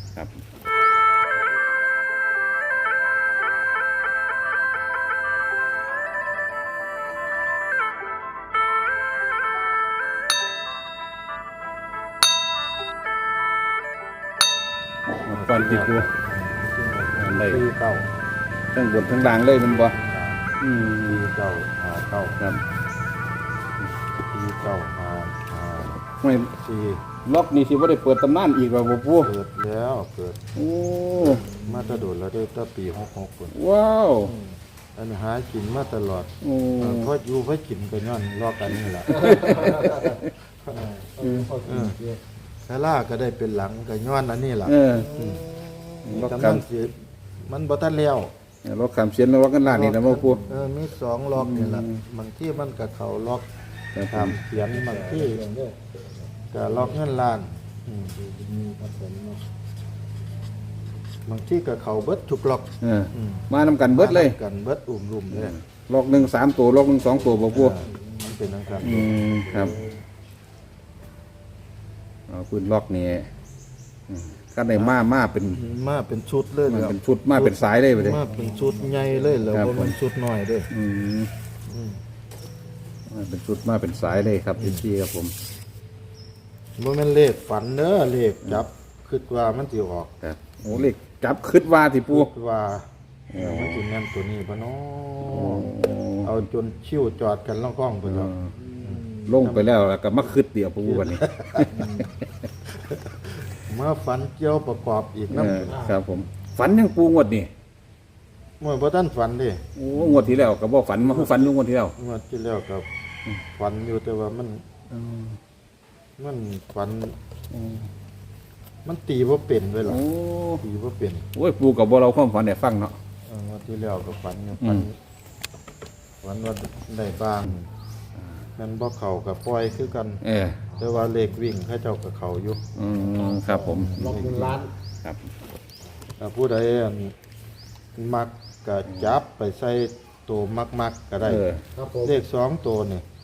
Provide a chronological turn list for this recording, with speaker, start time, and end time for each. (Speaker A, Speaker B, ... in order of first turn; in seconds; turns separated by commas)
Speaker A: 15.2-16.1, Speaker B: 15.3-18.1, Speaker A: 17.1-17.6, Speaker A: 18.7-20.0, Speaker B: 19.3-20.5, Speaker A: 20.6-21.2, Speaker B: 21.0-22.4, Speaker B: 24.2-26.0, Speaker A: 26.2-26.5, Speaker B: 26.5-27.0, Speaker A: 27.2-29.3, Speaker B: 29.2-30.4, Speaker A: 30.5-31.4, Speaker C: 31.3-32.0, Speaker B: 31.6-33.5, Speaker A: 33.5-34.3, Speaker B: 34.9-40.0, Speaker A: 36.4-37.1, Speaker A: 39.1-40.2, Speaker C: 39.1-40.2, Speaker C: 40.7-42.2, Speaker B: 41.6-42.0, Speaker B: 42.6-45.5, Speaker A: 44.6-45.1, Speaker A: 46.0-46.6, Speaker B: 46.1-48.3, Speaker A: 48.6-50.4, Speaker B: 49.6-53.5, Speaker C: 50.3-50.6, Speaker A: 51.4-52.0, Speaker A: 53.9-54.4, Speaker B: 54.1-55.4, Speaker C: 54.5-56.0, Speaker B: 56.5-58.2, Speaker C: 58.2-59.4, Speaker B: 61.2-65.6, Speaker A: 62.8-64.4, Speaker A: 65.3-67.8, Speaker C: 67.2-69.9, Speaker B: 67.5-69.3, Speaker A: 68.8-69.8, Speaker A: 72.3-73.3, Speaker A: 74.1-75.6, Speaker B: 74.7-80.7, Speaker A: 76.7-78.2, Speaker C: 78.3-79.5, Speaker A: 79.5-79.9, Speaker A: 80.7-81.3, Speaker B: 81.7-82.0, Speaker A: 83.1-85.3, Speaker B: 84.6-84.8, Speaker B: 86.8-90.1, Speaker A: 90.2-92.3, Speaker B: 92.1-99.8, Speaker A: 93.3-93.8, Speaker A: 95.3-96.3, Speaker A: 98.0-98.5, Speaker C: 98.7-99.3, Speaker A: 99.2-102.0, Speaker B: 100.8-102.0, Speaker C: 101.7-102.1, Speaker B: 102.8-105.8, Speaker A: 105.3-107.5, Speaker C: 105.7-106.0, Speaker B: 108.6-109.6, Speaker A: 109.8-111.9, Speaker B: 111.0-112.8, Speaker B: 113.5-114.7, Speaker A: 115.0-115.3, Speaker B: 116.2-117.2, Speaker A: 117.5-117.9, Speaker B: 118.8-120.0, Speaker A: 119.9-120.6, Speaker B: 120.6-121.2, Speaker A: 121.3-123.0, Speaker B: 123.3-124.9, Speaker A: 124.6-124.9, Speaker B: 126.2-127.7, Speaker B: 128.6-130.2, Speaker A: 130.2-130.6, Speaker C: 130.7-131.2, Speaker B: 130.8-132.6, Speaker A: 132.8-134.2, Speaker C: 132.9-134.7, Speaker B: 133.7-134.6, Speaker B: 136.2-137.1, Speaker B: 137.9-141.5, Speaker A: 138.9-139.2, Speaker A: 141.2-141.6, Speaker C: 141.7-142.2, Speaker B: 142.0-143.0